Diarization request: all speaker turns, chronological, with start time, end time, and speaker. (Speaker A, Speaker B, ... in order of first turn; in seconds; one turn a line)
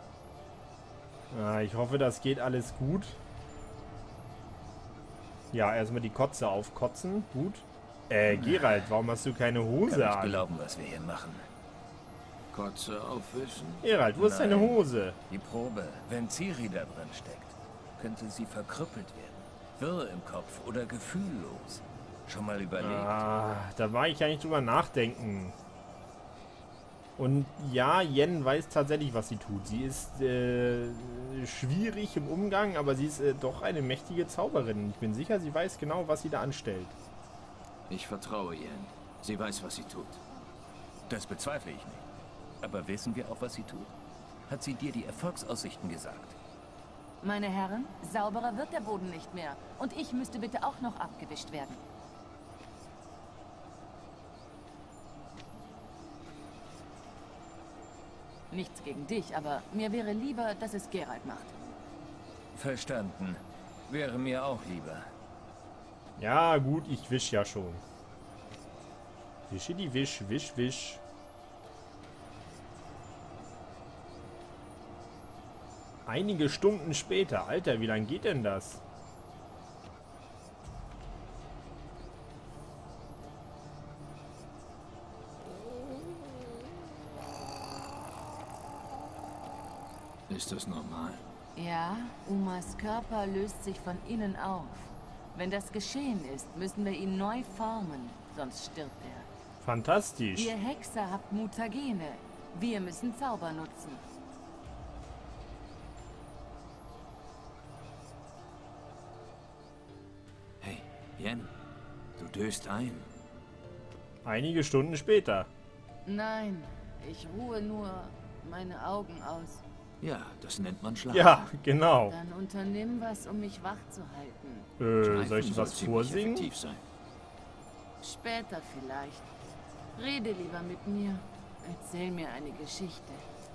Speaker A: 1.3-3.2
Speaker A: 5.5-10.4
Speaker B: 8.3-8.7
Speaker B: 9.9-11.4
Speaker C: 12.5-13.8
Speaker A: 13.8-15.2
Speaker B: 14.2-23.1
Speaker A: 22.8-25.5
Speaker A: 27.2-37.0
Speaker C: 37.9-40.2
Speaker B: 41.1-42.0
Speaker B: 42.6-43.9
Speaker B: 44.5-46.4
Speaker D: 47.2-51.8
Speaker D: 58.5-61.5
Speaker B: 62.5-65.0
Speaker A: 66.2-67.8
Speaker A: 69.5-71.0
Speaker A: 76.0-78.8
Speaker C: 90.3-91.2
Speaker D: 91.5-99.3
Speaker A: 99.6-100.5
Speaker D: 100.3-104.0
Speaker C: 110.6-111.5
Speaker C: 112.2-113.1
Speaker A: 114.2-115.5
Speaker D: 116.0-119.6
Speaker C: 120.0-121.3
Speaker A: 121.1-122.1
Speaker D: 122.1-124.7
Speaker A: 124.8-126.5
Speaker C: 125.0-126.8
Speaker D: 128.0-129.3
Speaker D: 129.9-133.2